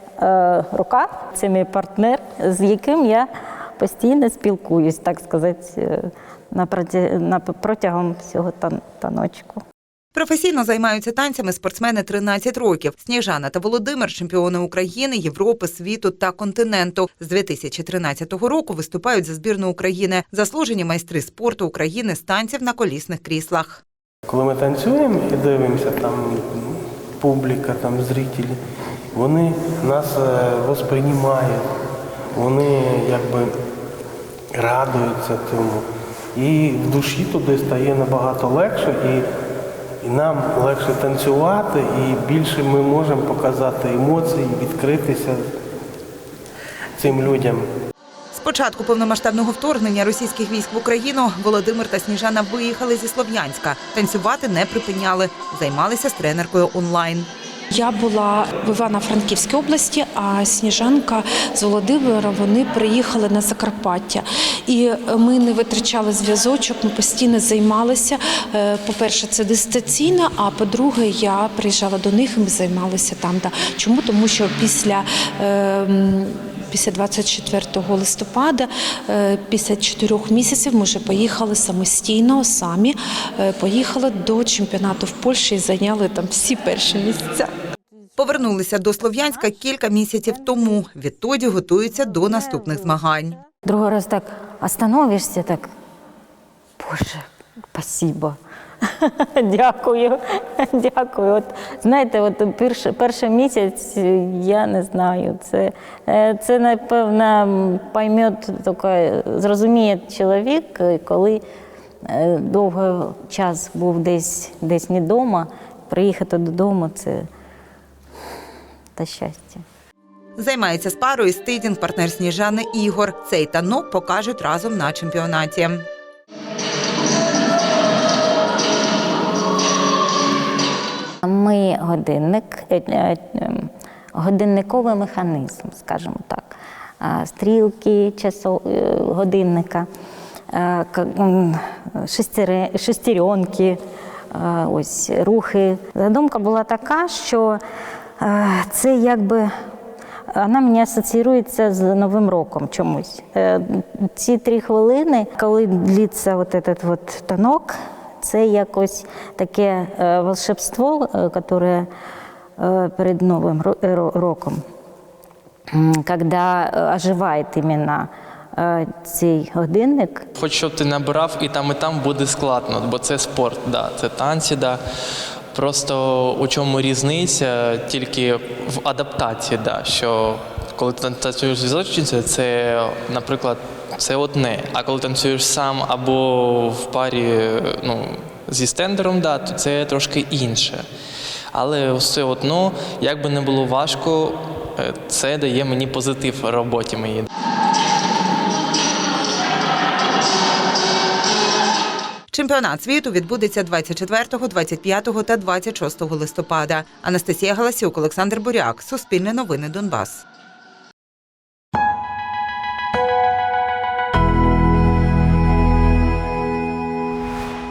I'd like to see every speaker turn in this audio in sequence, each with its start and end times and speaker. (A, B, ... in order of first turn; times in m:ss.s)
0:00.2-0:03.3 A
0:03.8-0:09.6 A
0:10.1-0:23.8 B
0:24.3-0:28.6 C
0:29.1-0:31.7 C
0:32.3-0:33.5 C
0:34.5-0:39.2 C
0:40.0-0:45.4 C
0:47.0-0:47.6 C
0:48.3-0:57.3 B
0:57.7-1:27.5 D
1:28.2-1:33.4 B
1:33.6-1:35.7 A
1:36.8-1:37.2 A
1:37.7-1:38.4 A
1:39.0-1:51.4 A
1:52.1-1:57.2 A
1:59.0-1:59.6 A
2:00.4-2:05.8 B
2:11.2-2:19.9 A
2:20.5-2:23.8 A
2:24.3-2:27.6 A
2:28.2-2:29.5 A
2:30.3-2:41.9 A
2:42.6-2:44.6 A
2:45.7-2:50.2 A
2:50.3-2:54.8 E
2:55.5-3:10.9 E
3:11.5-3:17.3 E
3:22.3-3:30.2 B